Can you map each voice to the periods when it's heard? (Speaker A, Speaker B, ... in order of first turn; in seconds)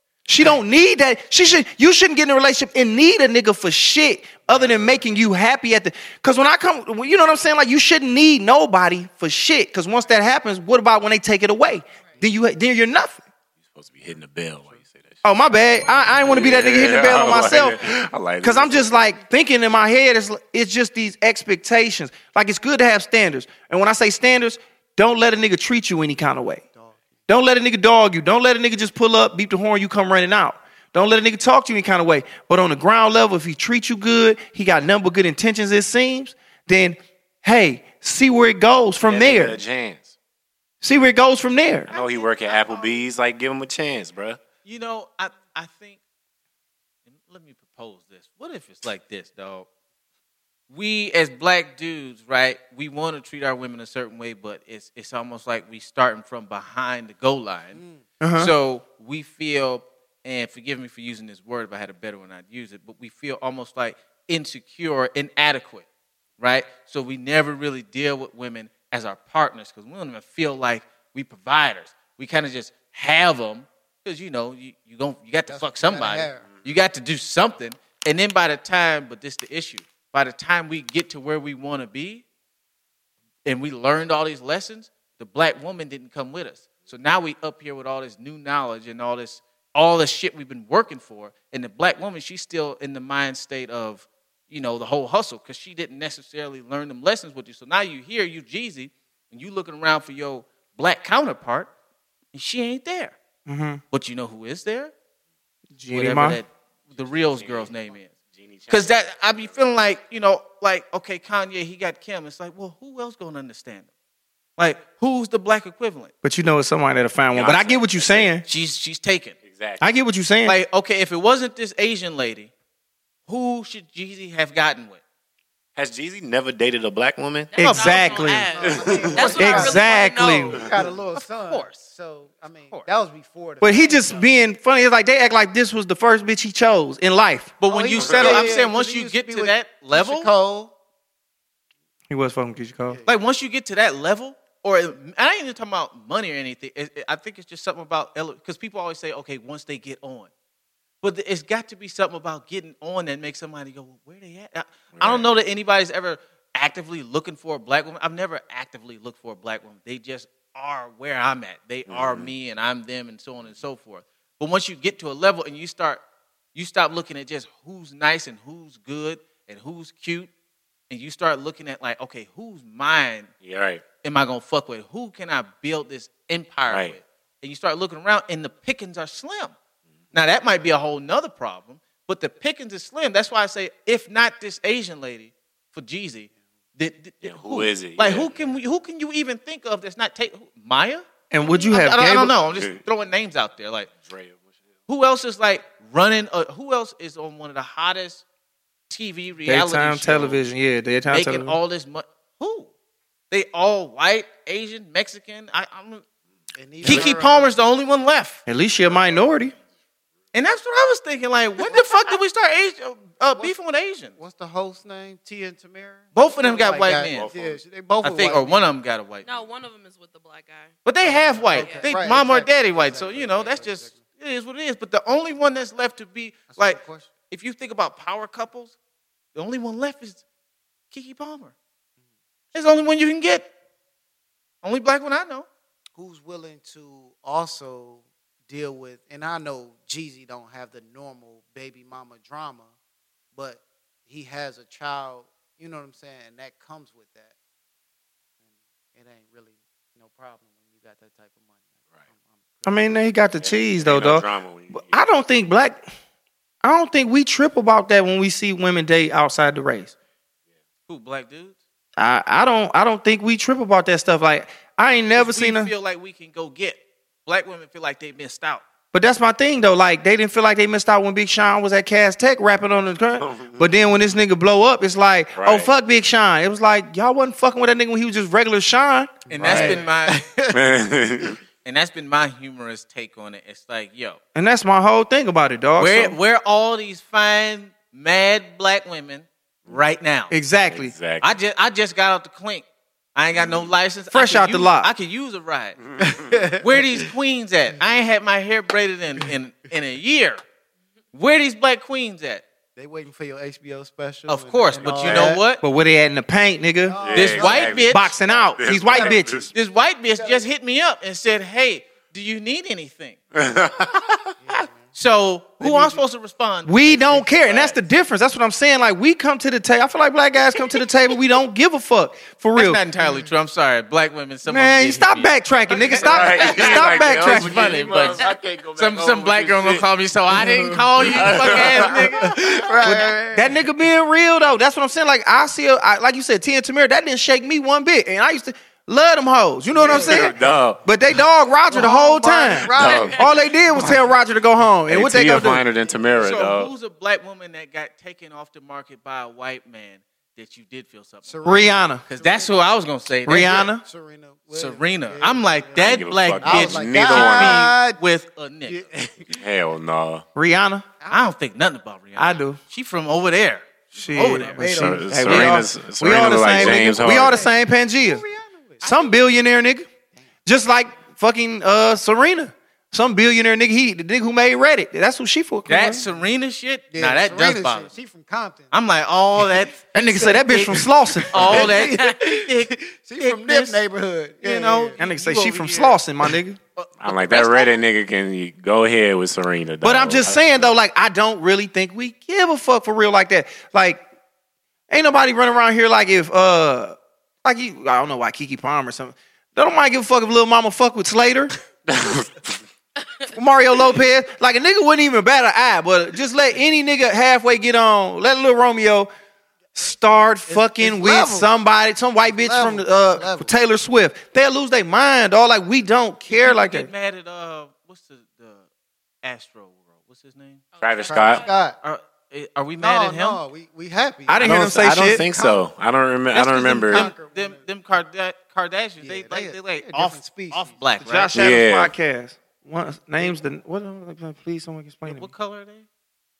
Speaker A: 0.3-13.2, 15.2-26.6, 27.3-39.6, 40.8-41.9, 58.2-58.5, 103.5-103.8, 105.7-106.4, 116.2-118.4, 119.8-120.6, 127.6-128.5, 129.3-130.5, 133.6-137.5, 142.1-143.0, 191.3-192.3, 199.4-201.6, 206.8-207.1, 208.4-209.5, 252.7-255.8, 256.6-259.9, 262.0-265.7, 268.9-279.8, 284.3-286.2, 290.3-290.9, 294.1-294.9, 305.0-307.1, 307.9-309.4, 315.6-316.0, 316.6-322.8, 324.5-327.9, 332.9-345.6, 351.4-352.0, 353.2-353.8, 360.3-360.8, 362.2-362.6, 363.9-368.2, 368.8-369.9, 370.4-376.0, 379.9-381.7, 385.0-386.6, 389.8-394.0, 394.9-401.5, 403.3-409.1, 409.7-416.9, 424.3-425.2, 431.0-435.3
Speaker B: 13.7-15.2, 16.2-19.1, 39.0-40.1, 41.9-44.4, 107.3-107.7, 108.3-109.5, 117.3-118.3, 119.4-119.8, 125.8-127.6, 128.6-129.4, 137.9-138.5, 154.9-155.2, 161.9-162.3, 173.4-173.8, 176.7-176.9, 187.2-188.3, 194.1-194.4, 217.1-217.6, 253.4-255.0, 273.2-273.7, 275.3-275.7, 280.5-281.4, 290.7-291.3, 293.4-293.7, 307.0-309.5, 313.3-314.6, 317.4-317.8, 326.0-333.2, 339.8-340.8, 342.7-343.2, 344.9-346.7, 355.7-357.7, 359.3-360.2, 364.7-367.4, 387.0-390.7, 401.9-402.6, 420.8-421.5, 424.4-427.1, 431.3-431.9
Speaker C: 26.7-27.0, 57.7-58.0, 75.5-76.4, 128.5-134.2, 137.7-140.7, 206.6-207.5, 211.6-212.1, 214.2-218.6, 221.0-224.0, 226.5-227.1, 235.9-242.7, 243.3-247.3, 248.9-251.6, 252.1-253.0, 279.3-280.5, 296.0-297.1, 302.8-305.4, 306.8-310.4, 314.4-314.9, 331.2-333.5, 339.9-340.3, 341.7-343.9, 351.3-352.6, 353.3-358.0, 358.7-359.3, 361.0-361.3, 364.4-365.5, 366.6-368.9, 376.9-378.7, 381.4-385.0, 386.8-387.7, 410.5-411.5, 412.2-413.5, 421.1-421.8, 422.8-424.5, 426.9-427.7, 429.0-430.8
Speaker D: 41.9-43.0, 44.6-46.0, 47.1-49.6, 50.7-57.8, 58.4-65.8, 66.4-82.2, 83.4-101.7, 102.3-103.1, 103.9-104.9, 105.9-108.1, 108.7-113.9, 114.6-116.1, 118.5-119.3, 120.4-122.5, 123.3-125.0, 127.6-128.4, 131.2-131.8, 137.6-140.3, 143.1-150.3, 151.0-166.0, 166.5-170.3, 170.9-173.3, 174.0-179.5, 180.1-193.9, 194.9-198.2, 198.9-200.4, 201.1-202.7, 203.3-206.0, 206.8-208.4, 210.3-214.1, 216.1-217.3, 218.0-219.3, 220.8-228.7, 229.3-230.2, 230.9-231.5, 232.5-233.5, 234.6-235.5, 260.9-261.5, 265.1-268.6, 279.3-280.5, 281.6-284.2, 285.8-290.3, 291.2-295.8, 296.6-300.4, 301.1-302.4, 304.3-305.6, 307.1-308.1, 309.5-313.2, 314.9-317.4, 322.5-332.4, 346.2-353.7, 354.5-359.0, 361.1-364.6, 375.7-377.9, 378.7-379.9, 381.3-383.8, 384.4-386.0, 416.3-418.6, 419.2-420.6, 421.8-423.4, 425.3-425.6, 426.3-431.3, 435.1-435.9
Speaker E: 127.5-130.6, 219.2-220.7, 221.6-221.9, 368.8-369.1, 381.8-382.2, 420.7-421.6